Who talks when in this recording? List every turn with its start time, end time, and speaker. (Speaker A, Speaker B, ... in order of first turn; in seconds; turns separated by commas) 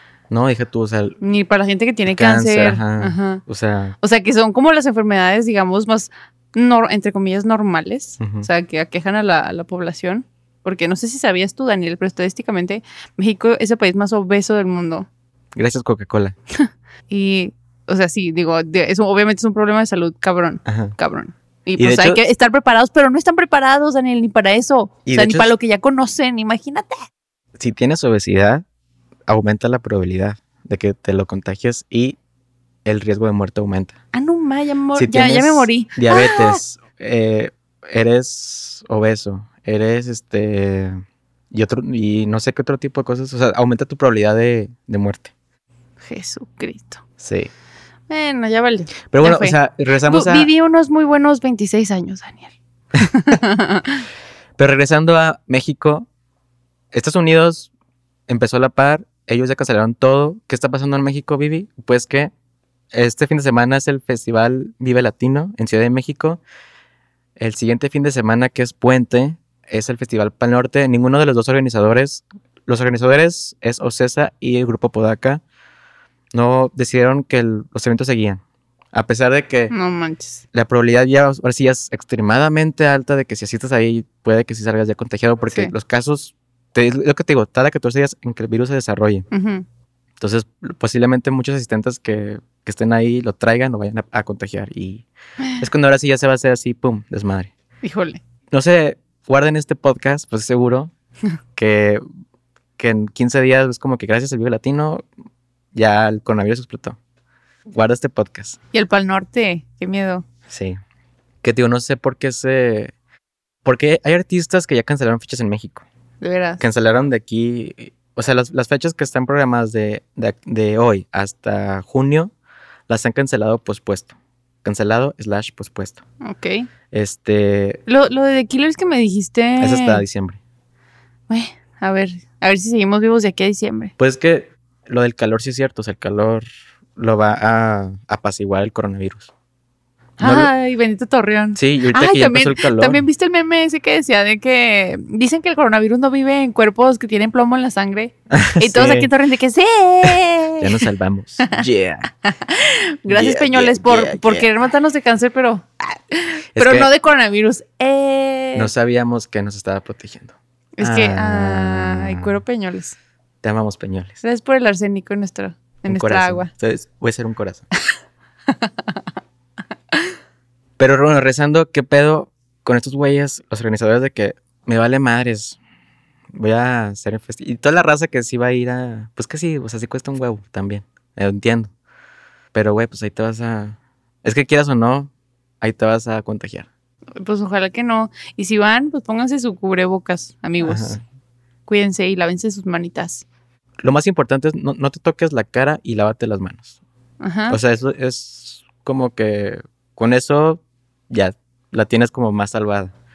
Speaker A: 0.3-1.2, Speaker B: 1.2-3.4, Speaker A: 2.1-4.0, Speaker B: 4.0-15.1, Speaker A: 8.2-8.5, Speaker A: 15.6-16.4, Speaker B: 16.6-27.0, Speaker A: 20.7-20.9, Speaker A: 21.8-22.2, Speaker A: 25.1-25.5, Speaker A: 27.6-28.6, Speaker A: 29.3-32.2, Speaker A: 32.9-34.0, Speaker B: 34.1-36.6, Speaker A: 35.0-45.3, Speaker B: 46.0-47.0, Speaker A: 47.2-47.5, Speaker B: 48.1-49.6, Speaker A: 49.1-50.5, Speaker B: 50.1-54.0, Speaker A: 54.6-56.1, Speaker A: 56.9-57.7, Speaker A: 58.3-62.3, Speaker A: 62.9-66.4, Speaker A: 67.4-75.4, Speaker A: 76.3-78.4, Speaker A: 78.9-79.7, Speaker B: 79.7-80.4, Speaker A: 80.5-89.3, Speaker B: 89.3-89.6, Speaker A: 90.2-95.1, Speaker B: 95.4-95.7, Speaker A: 95.6-97.5, Speaker B: 97.8-98.2, Speaker A: 98.5-100.9, Speaker A: 101.6-102.0, Speaker A: 102.8-105.0, Speaker A: 105.7-107.0, Speaker A: 107.7-108.6, Speaker B: 108.7-110.2, Speaker A: 110.5-110.8, Speaker A: 111.4-112.9, Speaker A: 113.7-115.8, Speaker B: 116.2-116.6, Speaker A: 116.6-122.3, Speaker A: 122.9-126.0, Speaker B: 126.2-126.7, Speaker A: 126.9-127.8, Speaker B: 127.9-130.0, Speaker A: 129.6-130.4, Speaker B: 131.3-133.9, Speaker A: 134.0-139.3, Speaker B: 140.2-150.8, Speaker A: 140.2-140.5, Speaker A: 141.6-143.0, Speaker A: 148.3-149.1, Speaker A: 150.1-152.1, Speaker B: 152.3-158.7, Speaker A: 153.1-154.5, Speaker A: 156.6-156.9, Speaker A: 158.5-162.3, Speaker B: 160.8-163.0, Speaker A: 163.4-164.2, Speaker B: 164.2-166.5, Speaker A: 165.8-167.7, Speaker B: 168.5-169.0, Speaker A: 170.8-175.6, Speaker A: 176.3-181.7, Speaker A: 182.5-186.7, Speaker B: 187.2-191.0, Speaker A: 190.6-191.0, Speaker B: 191.7-193.2, Speaker A: 193.8-196.7, Speaker B: 197.2-197.6, Speaker A: 197.5-202.9